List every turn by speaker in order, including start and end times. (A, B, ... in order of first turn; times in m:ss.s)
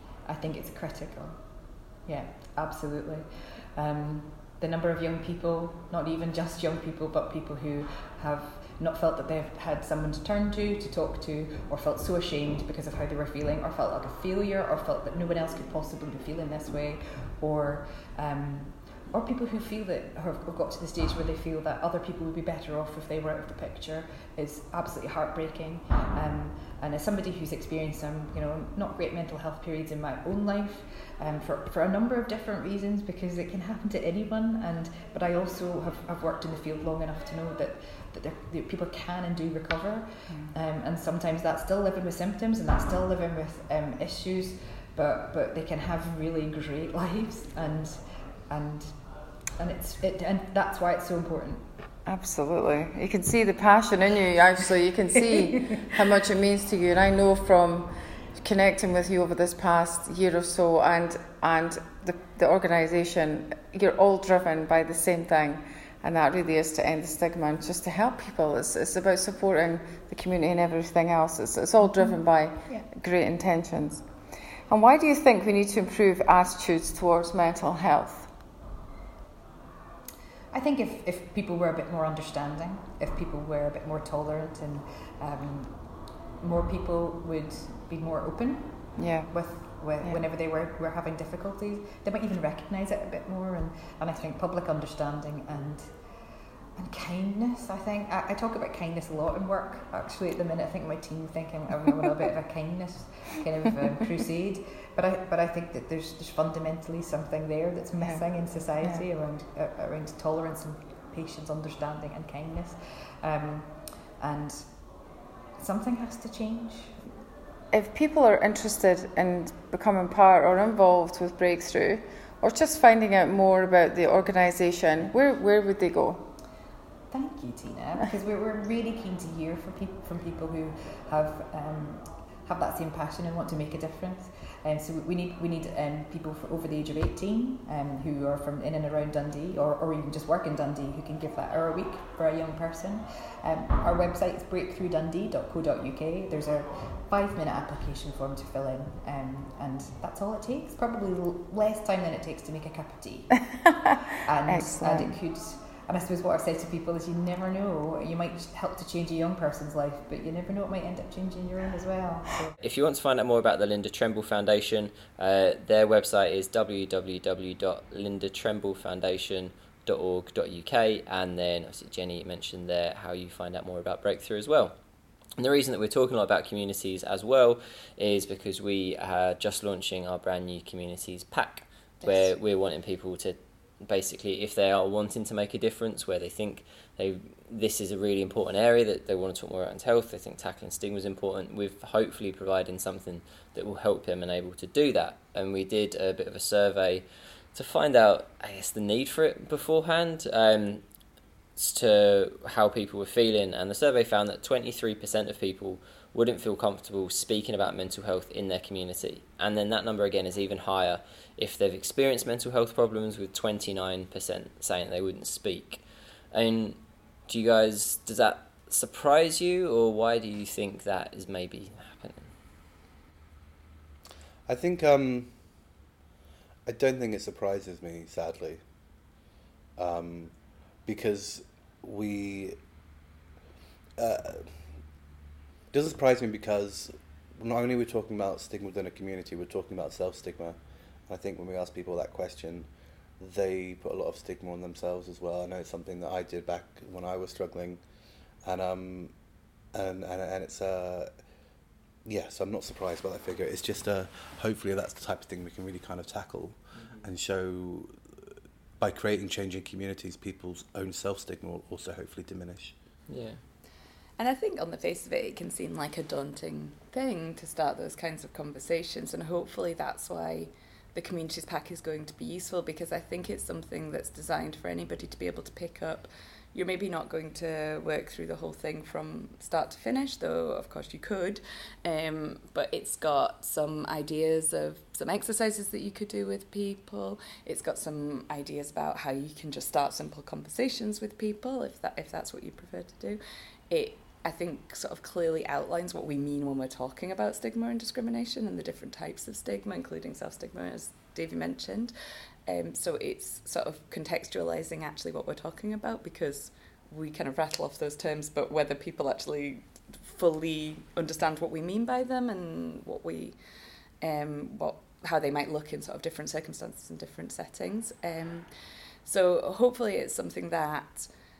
0:00.2-0:51.7 A
0:52.0-1:18.3 B
0:55.1-0:56.0 A
1:11.9-1:12.9 A
1:20.5-1:36.0 A
1:29.0-1:29.3 B
1:36.7-1:57.0 A
1:57.7-2:06.3 B
2:07.1-2:33.3 A
2:34.2-2:42.5 A
2:34.4-2:35.2 B
2:42.6-2:54.8 C
2:55.4-3:20.8 C
3:02.0-3:02.3 D
3:21.6-3:42.3 C
3:44.5-3:45.5 E
3:46.6-3:48.6 E
3:49.8-3:52.6 E
3:54.0-3:54.8 E
3:55.7-4:07.8 E
4:08.4-4:09.1 E
4:09.7-4:11.1 E
4:12.0-4:17.9 E
4:18.8-4:22.7 E
4:23.1-4:23.4 C
4:24.2-5:01.9 D
5:02.4-5:13.4 D
5:14.0-5:18.5 D
5:19.0-5:21.1 D